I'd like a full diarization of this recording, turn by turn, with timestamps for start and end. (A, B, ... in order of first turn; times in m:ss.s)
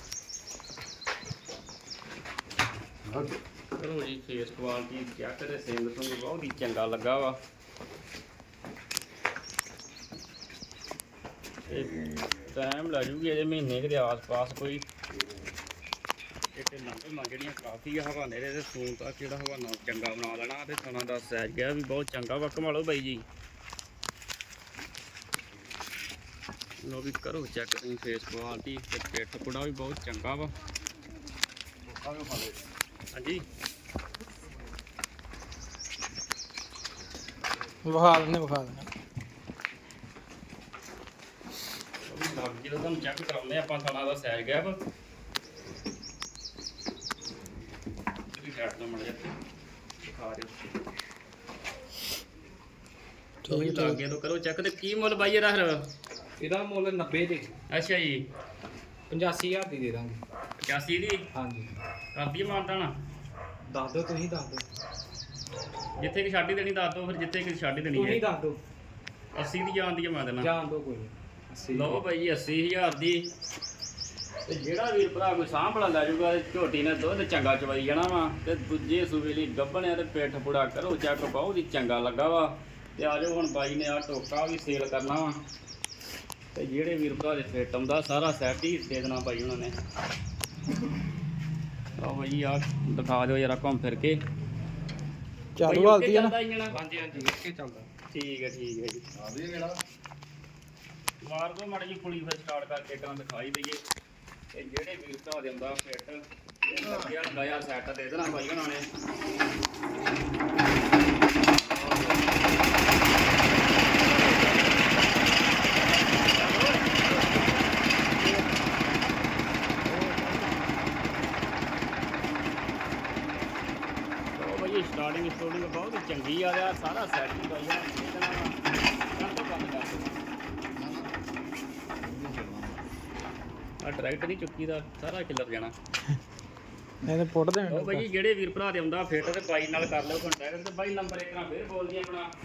0:03.8-0:07.4 A
0:11.7-0:11.9 A
0:12.4-0:14.8 A
0:16.5-0:23.2 A
0:26.8-0:30.5 A
0:33.1-0:33.4 A
0:37.8-0:38.9 B
0:42.0-0:44.8 A
0:48.3-0:49.3 A
0:50.0-0:50.6 A
0:53.4-0:54.0 B
0:53.5-0:55.9 A
0:56.4-0:57.5 C
0:57.7-0:58.2 A
0:59.1-1:00.2 C
1:00.6-1:01.2 A
1:01.3-1:01.7 C
1:02.1-1:02.9 A
1:03.7-1:04.6 C
1:06.0-1:08.2 A
1:07.9-1:08.6 C
1:09.3-1:10.5 A
1:10.4-1:12.0 C
1:11.7-1:13.3 A
1:14.5-1:25.4 A
1:26.5-1:29.7 A
1:32.0-1:34.2 A
1:35.6-1:36.3 B
1:35.6-1:36.8 A
1:36.7-1:37.9 C
1:38.1-1:39.0 A
1:41.2-1:43.8 A
1:44.5-1:48.8 A
1:51.7-1:52.2 A
1:53.9-1:54.9 A
1:56.3-1:58.5 A
1:59.8-2:00.8 A
2:04.3-2:08.6 A
2:09.1-2:10.1 A
2:13.8-2:15.7 A
2:17.0-2:18.0 B
2:17.7-2:22.3 A